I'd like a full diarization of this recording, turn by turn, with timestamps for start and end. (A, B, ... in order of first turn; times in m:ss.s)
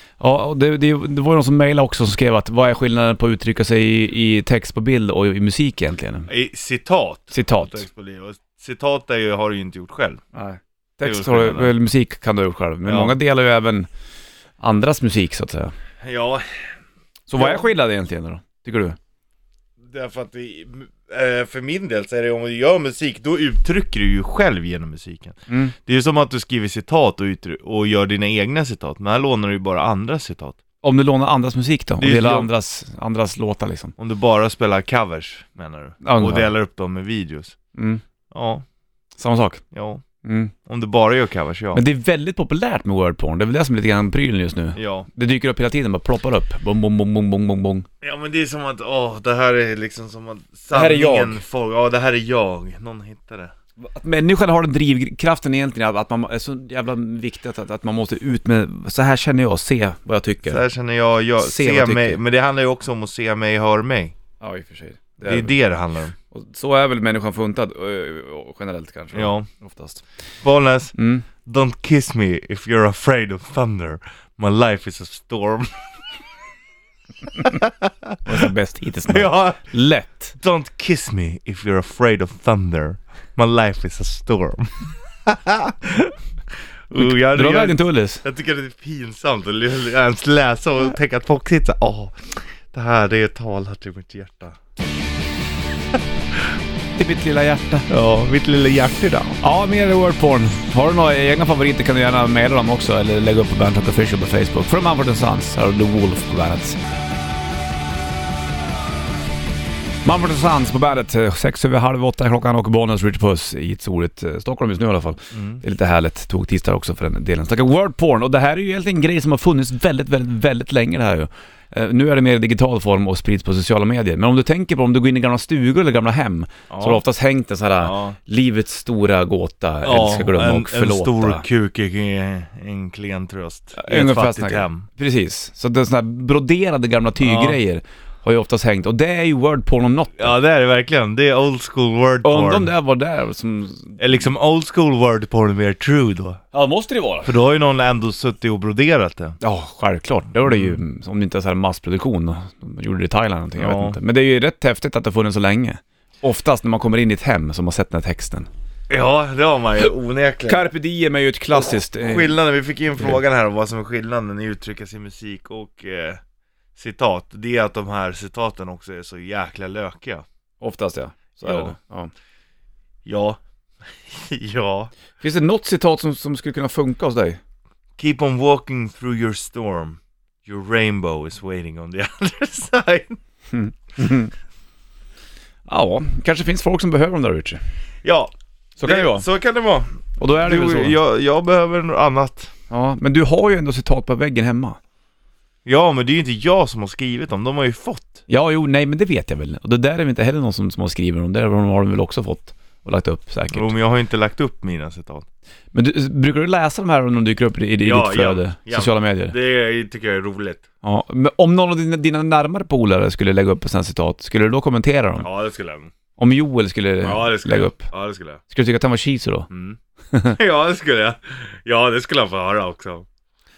0:00.2-0:06.3 A
0:06.3-0:10.2 B
0:07.3-0:07.8 A
0:10.3-0:13.9 A
0:11.0-0:11.7 B
0:12.8-0:13.1 B
0:14.6-0:15.7 A
0:16.0-0:16.4 B
0:17.3-0:19.0 A
0:17.4-0:17.6 B
0:19.9-0:30.6 B
0:25.5-0:25.7 A
0:30.8-0:33.9 A
0:32.0-0:32.5 B
0:34.0-0:37.6 B
0:36.0-0:36.5 A
0:37.8-0:38.0 A
0:38.3-0:38.6 B
0:39.2-0:39.6 A
0:39.7-0:40.0 B
0:40.2-0:40.5 A
0:40.6-0:41.8 B
0:41.7-0:47.9 A
0:44.8-0:45.1 B
0:48.0-0:53.5 B
0:50.7-0:51.4 A
0:53.8-1:00.6 A
1:00.4-1:04.1 B
1:01.4-1:02.2 A
1:04.4-1:05.5 A
1:05.2-1:06.1 B
1:06.3-1:10.0 A
1:09.1-1:09.5 B
1:10.4-1:15.7 B
1:11.0-1:11.2 A
1:17.4-1:18.1 B
1:18.2-1:20.3 A
1:19.1-1:19.6 B
1:20.4-1:26.1 B
1:26.9-1:34.6 B
1:27.0-1:28.2 A
1:37.0-1:37.8 A
1:37.9-1:39.4 B
1:39.4-1:46.8 A
1:50.0-2:11.4 A
1:55.3-1:55.6 B
2:06.7-2:07.0 B
2:07.8-2:08.2 B
2:09.8-2:14.8 B
2:13.8-2:20.4 A
2:17.2-2:17.6 B
2:20.2-2:22.7 B
2:22.2-2:24.0 A
2:24.0-2:26.4 B
2:26.5-2:27.3 A
2:27.2-2:29.4 B
2:29.4-2:38.5 A
2:30.4-2:30.8 B
2:33.6-2:34.0 B
2:38.9-2:40.6 B
2:40.5-2:42.3 A
2:42.0-2:46.2 B
2:46.8-2:50.2 B
2:50.6-2:52.1 A
2:51.4-2:51.7 B
2:53.0-2:53.4 B
2:54.0-2:54.9 B
2:55.2-2:57.4 A
2:58.0-3:03.2 B
3:03.5-3:04.3 A
3:05.7-3:07.6 A
3:08.0-3:12.5 B
3:08.8-3:09.2 A
3:10.2-3:11.0 A
3:12.7-3:14.8 A
3:15.6-3:18.2 B
3:18.3-3:23.7 A
3:23.5-3:25.2 B
3:25.7-3:29.3 A
3:27.8-3:30.6 B
3:30.8-3:35.2 A
3:35.2-3:35.9 B
3:36.2-3:37.9 A
3:37.0-3:38.4 B
3:38.5-3:39.5 A
3:39.5-3:39.8 B
3:40.3-3:43.0 B